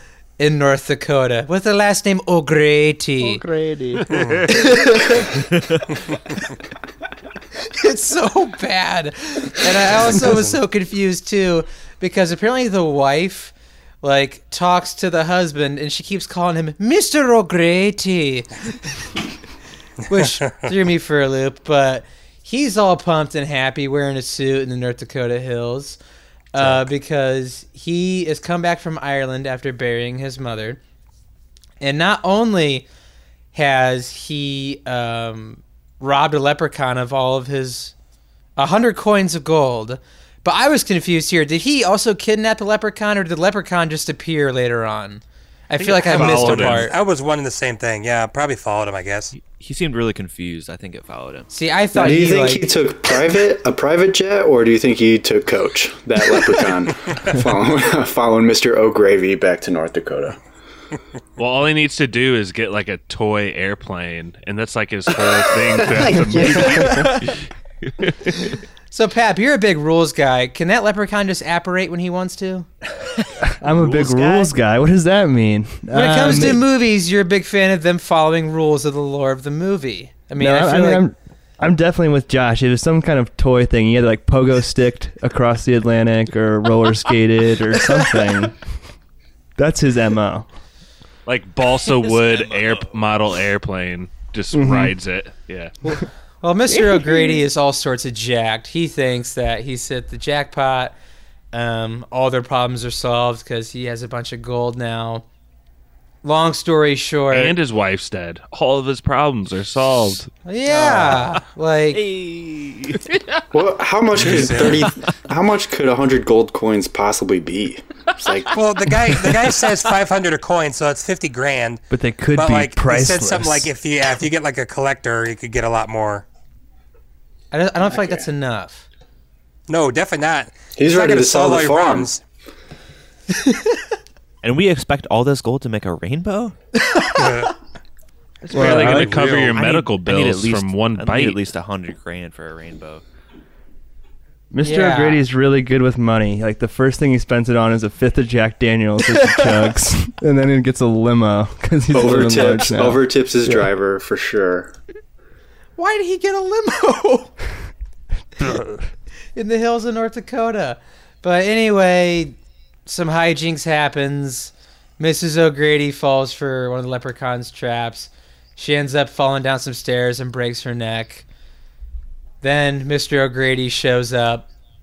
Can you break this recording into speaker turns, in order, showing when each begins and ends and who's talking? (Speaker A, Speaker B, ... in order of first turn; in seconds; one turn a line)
Speaker A: 0.4-3.4
Speaker B: 3.2-4.0
Speaker C: 4.1-4.7
Speaker A: 4.5-5.3
Speaker A: 7.6-18.5
Speaker C: 10.0-10.6
Speaker A: 20.1-26.0
Speaker C: 20.2-20.7
Speaker A: 26.5-30.8
Speaker C: 26.6-26.9
Speaker A: 31.8-32.9
Speaker A: 33.5-38.0
Speaker A: 38.6-47.0
Speaker C: 45.8-49.3
Speaker D: 46.0-46.9
Speaker E: 49.3-51.5
Speaker A: 51.5-52.6
Speaker F: 51.9-60.4
Speaker D: 61.4-67.4
Speaker F: 65.7-67.1
Speaker B: 66.7-67.2
Speaker D: 68.0-68.4
Speaker A: 68.9-72.7
Speaker B: 73.4-76.7
Speaker E: 73.8-74.5
Speaker A: 75.9-81.0
Speaker B: 80.4-88.6
Speaker B: 89.6-90.5
Speaker D: 91.3-95.7
Speaker B: 94.5-95.0
Speaker A: 95.8-101.0
Speaker A: 101.5-105.2
Speaker A: 106.2-107.6
Speaker D: 107.3-110.3
Speaker A: 110.5-112.0
Speaker C: 110.7-111.4
Speaker D: 112.0-113.0
Speaker F: 113.5-118.5
Speaker C: 114.2-114.9
Speaker C: 118.5-121.8
Speaker B: 121.9-123.7
Speaker C: 122.3-126.2
Speaker A: 127.5-128.9
Speaker C: 129.7-132.2
Speaker F: 130.8-132.1
Speaker A: 133.4-133.7
Speaker E: 134.4-136.6
Speaker C: 137.1-137.5
Speaker C: 138.5-139.6
Speaker E: 138.5-143.0
Speaker B: 138.5-139.1
Speaker D: 138.5-141.4
Speaker B: 144.5-153.7
Speaker A: 144.6-145.2
Speaker A: 149.1-149.5
Speaker F: 151.9-154.7
Speaker A: 155.8-157.3
Speaker B: 158.4-158.9
Speaker A: 159.4-171.3
Speaker A: 172.4-174.5